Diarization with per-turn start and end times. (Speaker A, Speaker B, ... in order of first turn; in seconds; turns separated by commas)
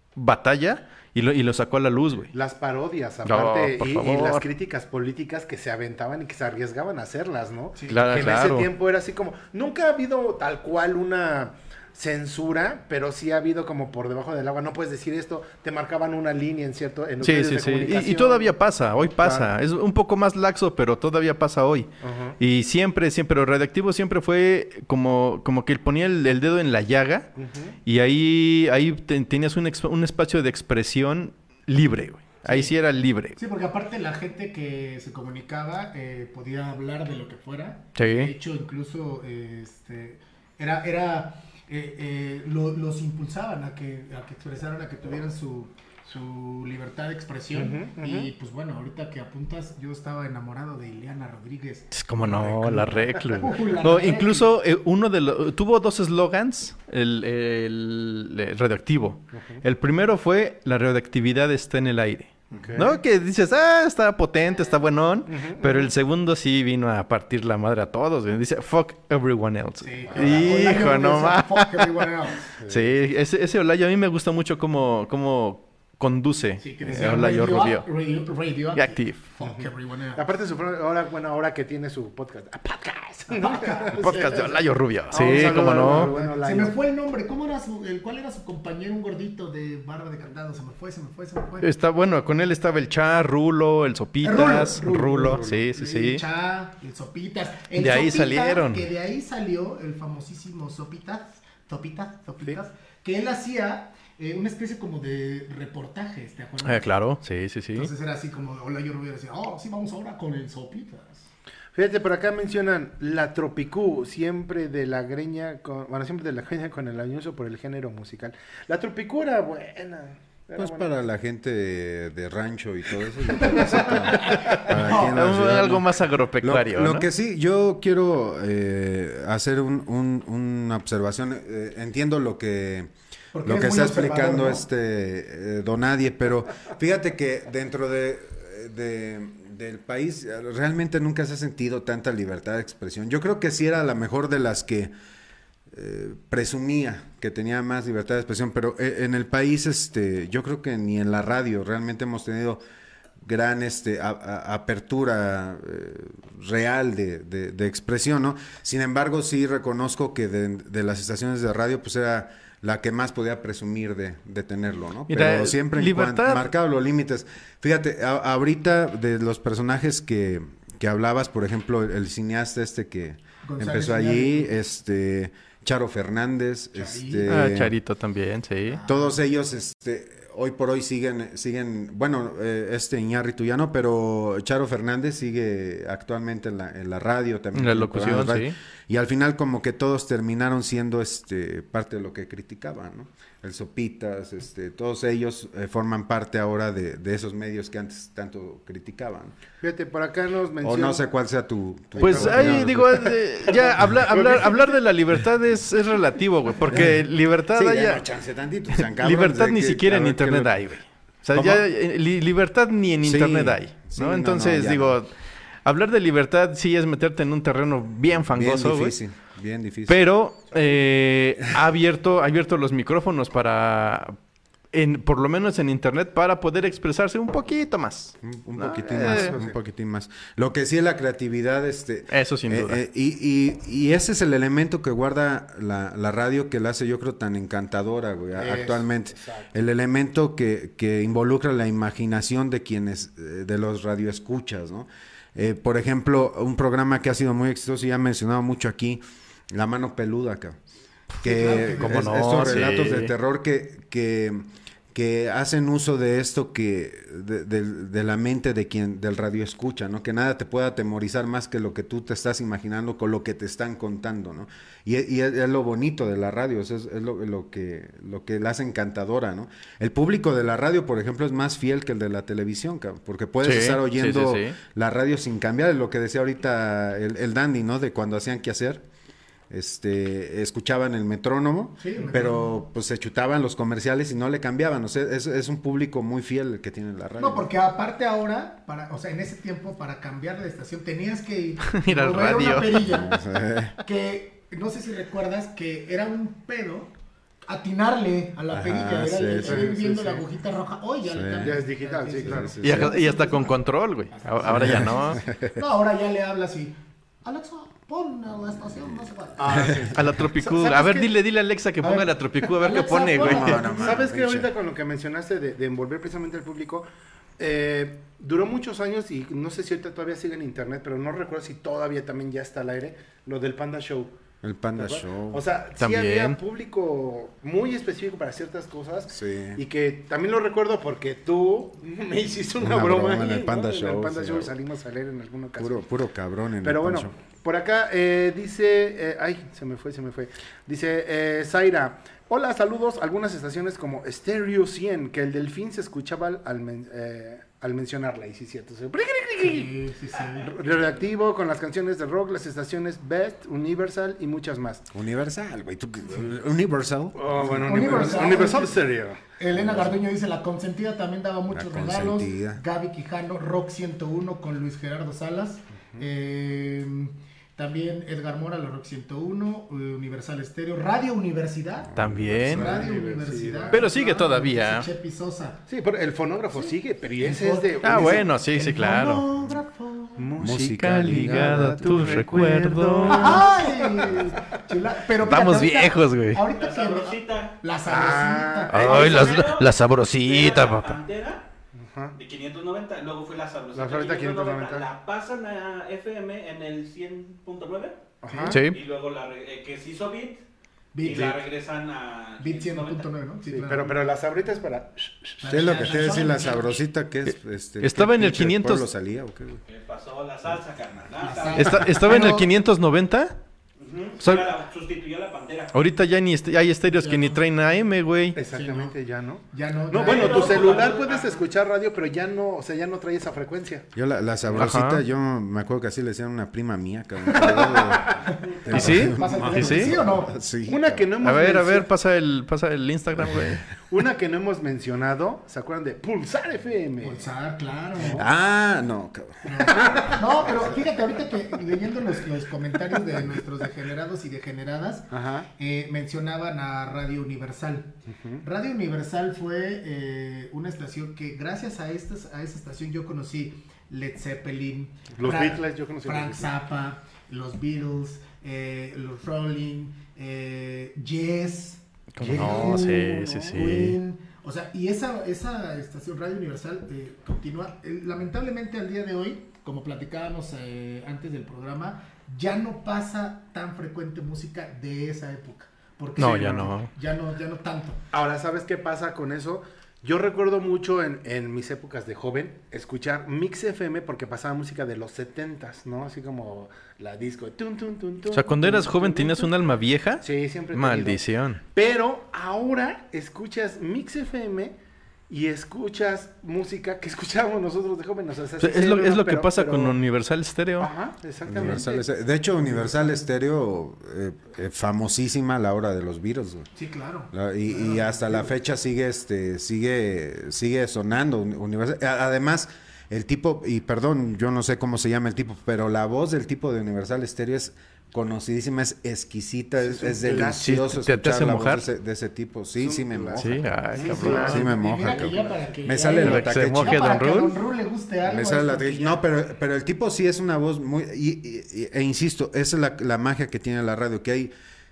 Speaker A: 0.1-2.3, Speaker B: 2.3-18.5, Speaker A: 3.2-4.4, Speaker C: 7.7-8.2, Speaker A: 7.9-8.7, Speaker A: 17.2-27.3, Speaker B: 19.2-19.5, Speaker B: 22.0-22.4, Speaker B: 27.4-27.8, Speaker A: 27.9-33.4, Speaker C: 32.4-32.7, Speaker C: 33.4-54.5, Speaker A: 38.0-38.3, Speaker B: 47.5-48.3, Speaker A: 51.9-72.0, Speaker B: 59.3-59.6, Speaker C: 62.5-62.9, Speaker B: 62.5-62.9, Speaker B: 65.3-65.9, Speaker C: 69.8-72.5, Speaker B: 70.1-70.8, Speaker B: 72.6-72.9, Speaker A: 72.7-77.9, Speaker C: 76.6-80.2, Speaker A: 78.7-79.2, Speaker B: 79.4-86.8, Speaker C: 83.3-84.5, Speaker A: 84.0-86.1, Speaker C: 85.1-91.7, Speaker A: 91.6-96.2, Speaker C: 94.2-107.0, Speaker A: 97.8-98.9, Speaker A: 106.6-107.9, Speaker C: 107.7-111.3, Speaker B: 111.7-120.9, Speaker D: 120.5-132.9, Speaker C: 123.4-125.2, Speaker A: 124.7-127.1, Speaker C: 133.3-134.6, Speaker D: 133.4-144.9, Speaker D: 145.7-152.6, Speaker D: 153.2-177.7, Speaker A: 165.1-166.5, Speaker C: 173.4-174.5, Speaker C: 176.7-177.4, Speaker A: 177.3-178.8, Speaker C: 178.7-179.2, Speaker D: 178.8-199.4, Speaker A: 187.5-188.5, Speaker B: 199.6-201.0, Speaker D: 200.6-203.1, Speaker B: 201.9-204.8, Speaker A: 202.0-208.0, Speaker D: 206.7-207.0, Speaker D: 207.5-210.6, Speaker A: 208.7-215.1, Speaker D: 211.3-211.6, Speaker D: 213.0-215.0, Speaker A: 215.6-219.0, Speaker D: 218.3-220.0, Speaker A: 219.9-224.2, Speaker A: 224.7-229.3, Speaker D: 228.2-250.6, Speaker B: 229.0-229.6, Speaker A: 232.1-232.8, Speaker B: 238.3-239.5, Speaker D: 251.2-278.8, Speaker C: 251.2-252.6, Speaker A: 251.7-253.1, Speaker A: 273.4-274.6, Speaker D: 279.5-287.5, Speaker C: 281.8-282.6, Speaker C: 287.2-293.2, Speaker A: 291.7-292.8, Speaker D: 292.8-293.8, Speaker C: 293.8-296.9, Speaker C: 297.5-309.8, Speaker D: 298.5-299.7, Speaker B: 299.4-300.2, Speaker D: 301.0-301.6, Speaker B: 301.4-302.6, Speaker D: 302.3-302.9, Speaker A: 302.6-305.2, Speaker D: 304.4-305.6, Speaker D: 308.6-309.7, Speaker B: 309.4-311.1, Speaker A: 309.9-313.6, Speaker C: 311.8-314.1, Speaker D: 313.2-314.5, Speaker B: 313.7-316.8, Speaker B: 317.4-324.1, Speaker D: 324.4-325.4, Speaker B: 324.8-335.8, Speaker A: 325.8-326.4, Speaker D: 329.1-329.6, Speaker D: 332.6-334.5, Speaker D: 335.6-337.1, Speaker B: 336.6-349.7, Speaker C: 349.4-350.5, Speaker B: 350.4-354.8, Speaker D: 354.9-358.5, Speaker B: 357.1-359.2, Speaker C: 357.6-375.6, Speaker D: 359.5-360.0, Speaker D: 361.5-362.6, Speaker D: 371.8-372.9, Speaker A: 371.9-372.8, Speaker B: 372.6-373.9, Speaker A: 373.7-374.9, Speaker B: 375.7-378.3, Speaker C: 376.5-380.3, Speaker A: 377.8-379.2, Speaker B: 380.2-384.3, Speaker D: 380.4-382.5, Speaker A: 380.8-383.5, Speaker C: 383.1-389.5, Speaker A: 385.2-386.4, Speaker E: 386.5-387.6, Speaker B: 387.9-389.2, Speaker A: 388.7-391.0, Speaker E: 388.8-391.5, Speaker B: 391.8-392.1, Speaker E: 392.1-400.4, Speaker B: 393.7-394.9, Speaker B: 398.2-398.6, Speaker C: 398.3-398.6, Speaker A: 398.5-398.8, Speaker C: 400.9-401.4, Speaker E: 401.0-403.1, Speaker C: 402.4-404.0, Speaker B: 403.4-405.4, Speaker C: 405.4-406.8, Speaker D: 405.4-409.6, Speaker A: 407.3-408.9, Speaker E: 409.7-411.9, Speaker C: 411.2-412.5, Speaker A: 411.5-413.4, Speaker E: 413.8-415.7, Speaker A: 414.2-414.5, Speaker A: 415.7-418.4, Speaker C: 416.9-417.4, Speaker B: 418.3-423.9, Speaker C: 418.5-418.9, Speaker C: 419.5-420.9, Speaker E: 420.0-421.4, Speaker D: 423.9-431.1, Speaker A: 424.5-425.0, Speaker C: 427.3-430.3, Speaker B: 427.9-428.2, Speaker A: 428.7-429.9, Speaker B: 430.7-431.9, Speaker A: 431.2-433.6, Speaker B: 433.9-437.3, Speaker C: 437.0-438.3, Speaker B: 437.9-438.2, Speaker D: 438.0-440.7, Speaker C: 439.4-478.0, Speaker B: 439.9-440.1, Speaker B: 445.1-445.5, Speaker B: 448.1-448.4, Speaker B: 455.1-456.5, Speaker A: 462.1-464.0, Speaker B: 462.2-463.5, Speaker A: 476.2-476.9, Speaker B: 478.1-489.5, Speaker A: 488.3-491.6, Speaker B: 490.2-494.8, Speaker B: 495.3-499.9, Speaker A: 498.6-500.9, Speaker B: 500.8-502.1, Speaker D: 501.5-506.7, Speaker C: 501.6-501.9, Speaker C: 502.6-503.2, Speaker C: 506.7-508.5, Speaker D: 507.3-527.2, Speaker B: 519.9-520.6, Speaker A: 520.5-521.9, Speaker B: 522.8-525.5, Speaker A: 523.4-524.6, Speaker C: 524.0-529.2, Speaker A: 526.1-527.6, Speaker D: 528.2-534.5